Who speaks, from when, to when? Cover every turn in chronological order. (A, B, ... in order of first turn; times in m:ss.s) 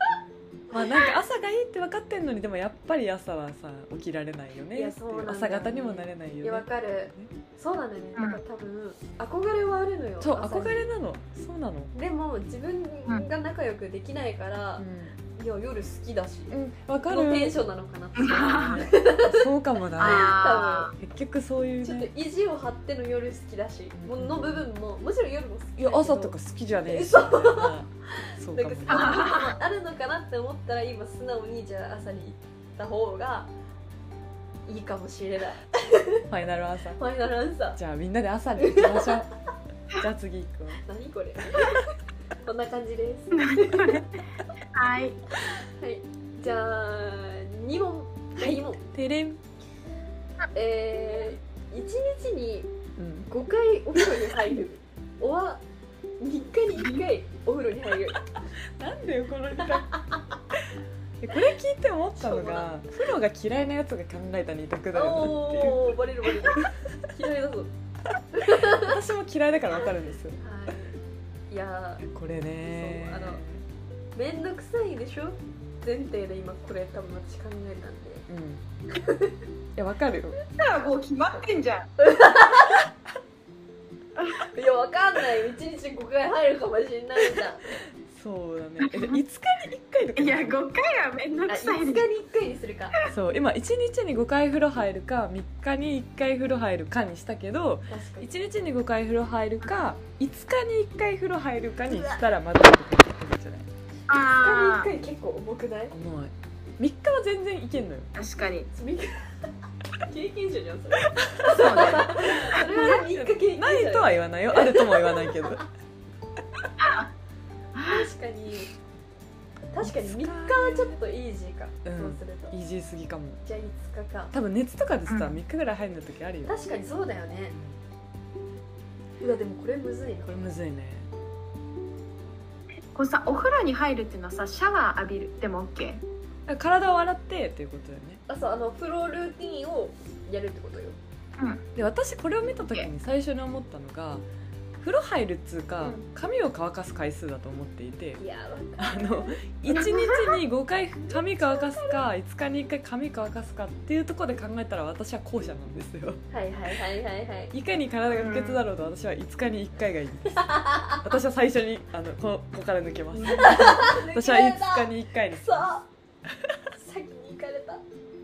0:00.7-0:07.3 A
0:04.7-0:10.9 B
0:10.2-0:11.9 A
0:11.9-0:16.5 B
0:14.8-0:15.2 A
0:16.5-0:17.5 A
0:17.0-0:19.5 B
0:18.2-0:18.9 C
0:18.4-0:20.3 A
0:20.0-0:20.9 C
0:20.0-0:20.9 B
0:21.0-0:22.1 A
0:21.8-0:26.3 B
0:23.9-0:24.7 A
0:25.8-0:29.3 A
0:26.8-0:33.5 B
0:28.9-0:29.5 C
0:34.6-0:36.2 B
0:36.3-0:37.0 A
0:37.0-0:37.8 B
0:37.8-0:39.3 A
0:38.6-0:39.2 B
0:40.0-0:40.8 A
0:40.8-0:41.8 B
0:42.4-0:44.1 B
0:43.3-0:44.1 C
0:44.7-0:45.2 C
0:45.8-0:48.8 B
0:48.4-0:49.4 A
0:50.5-0:52.7 B
0:53.0-0:53.3 A
0:53.3-0:55.6 B
0:56.2-0:58.2 B
0:58.8-1:00.0 A
1:01.2-1:06.0 A
1:02.2-1:02.7 B
1:04.9-1:07.7 B
1:08.4-1:08.9 B
1:08.6-1:10.4 A
1:10.4-1:10.9 B
1:11.5-1:12.1 B
1:12.1-1:13.6 A
1:12.6-1:13.4 B
1:14.1-1:18.2 B
1:18.3-1:18.6 A
1:18.9-1:19.4 B
1:19.8-1:20.4 A
1:20.6-1:21.9 C
1:22.0-1:22.9 B
1:24.5-1:27.6 B
1:28.1-1:30.6 A
1:28.8-1:29.2 C
1:30.2-1:32.1 C
1:31.5-1:33.0 B
1:33.1-1:43.7 A
1:37.9-1:38.3 B
1:41.9-1:42.2 B
1:44.1-1:44.9 C
1:44.3-1:45.9 B
1:45.9-1:48.1 A
1:48.1-1:48.7 C
1:48.7-1:49.3 B
1:50.0-1:55.5 B
1:51.4-1:52.6 C
1:51.5-1:52.0 A
1:52.6-1:55.6 A
1:56.8-1:57.1 C
1:57.8-1:58.7 B
1:59.7-2:02.6 B
1:59.8-2:00.9 A
2:01.8-2:03.4 A
2:03.4-2:04.3 B
2:04.3-2:06.5 A
2:05.1-2:05.4 C
2:06.4-2:07.6 B
2:07.5-2:07.8 A
2:09.2-2:10.3 B
2:10.2-2:11.1 A
2:12.9-2:16.0 C
2:16.5-2:18.2 A
2:18.3-2:21.0 B
2:21.4-2:21.6 C
2:21.7-2:24.2 A
2:22.6-2:22.9 C
2:24.8-2:28.2 A
2:28.2-2:30.4 B
2:28.8-2:36.2 A
2:31.1-2:32.0 B
2:36.3-2:37.5 B
2:37.5-2:45.7 A
2:38.2-2:38.6 C
2:40.5-2:40.9 B
2:43.1-2:45.9 B
2:46.7-2:47.8 B